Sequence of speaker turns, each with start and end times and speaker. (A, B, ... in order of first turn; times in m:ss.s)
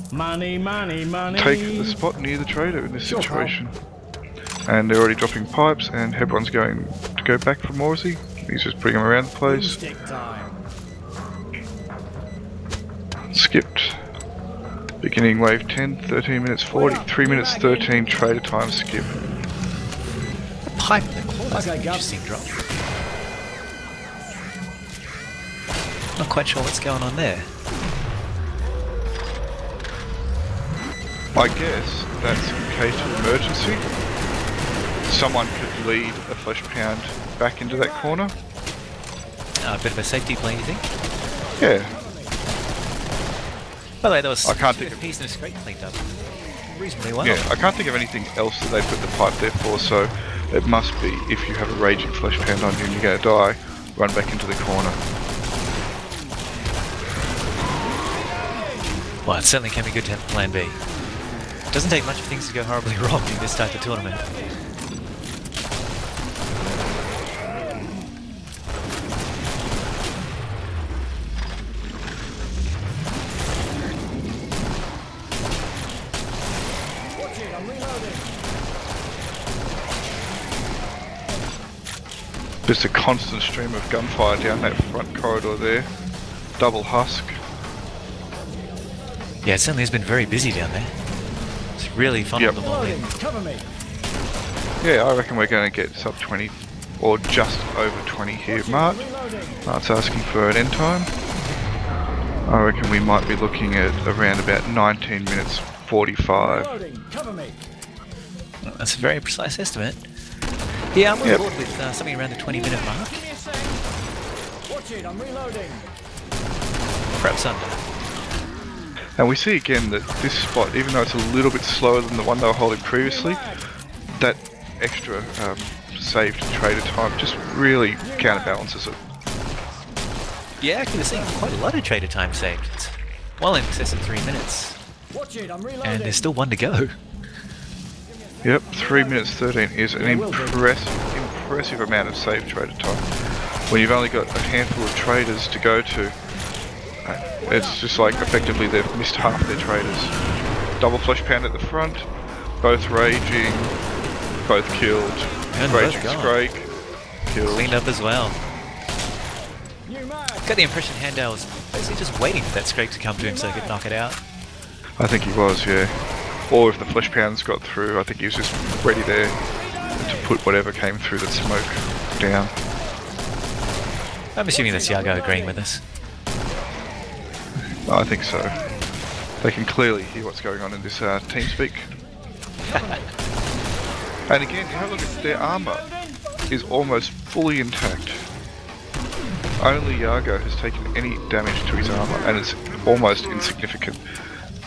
0:00.1-0:02.0 A
0:01.3-0:03.7 B
0:03.0-0:03.6 A
0:04.6-0:09.8 B
0:09.4-0:10.6 A
0:13.3-0:14.0 B
0:15.0-0:19.2 B
0:16.7-0:18.1 A
0:20.6-0:22.6 C
0:21.5-0:22.1 A
0:26.2-0:27.5 C
0:31.3-0:33.8 B
0:35.1-0:38.3 B
0:39.6-0:40.9 C
0:41.4-0:42.4 A
0:41.6-0:41.9 B
0:44.0-0:46.1 C
0:44.4-0:45.1 B
0:46.7-0:47.5 C
0:47.2-0:55.0 B
0:59.2-1:00.8 C
1:01.7-1:04.3 C
1:17.1-1:18.3 A
1:22.7-1:25.9 B
1:26.6-1:27.4 B
1:29.4-1:30.9 C
1:31.8-1:33.1 C
1:32.5-1:33.7 A
1:34.8-1:39.1 B
1:38.5-1:39.6 A
1:39.6-1:41.1 B
1:42.4-1:46.7 B
1:46.4-1:47.6 A
1:48.6-1:50.0 C
1:50.9-1:53.2 C
1:52.5-1:53.8 A
1:54.7-1:55.9 A
1:57.2-1:57.8 C
1:59.2-2:03.4 B
2:03.0-2:03.6 A
2:04.1-2:09.0 B
2:08.0-2:08.6 A
2:10.6-2:14.8 C
2:11.1-2:11.4 A
2:15.1-2:16.3 A
2:15.8-2:16.9 C
2:18.4-2:23.0 B
2:20.0-2:20.7 A
2:23.7-2:26.2 B
2:27.0-2:30.1 B
2:30.8-2:32.1 B
2:32.6-2:33.7 B
2:34.4-2:36.7 B
2:35.5-2:36.4 C
2:37.3-2:37.7 B
2:37.4-2:38.4 C
2:39.8-2:40.5 A
2:40.4-2:44.2 C
2:43.2-2:43.8 A
2:45.0-2:46.0 B
2:46.5-2:49.4 B
2:50.0-2:52.5 B
2:54.4-2:55.8 C
2:54.5-2:55.6 A
2:57.9-2:58.6 B
2:59.4-3:01.9 B
3:02.7-3:03.0 C
3:04.3-3:05.9 B
3:06.5-3:08.2 B
3:09.6-3:14.0 B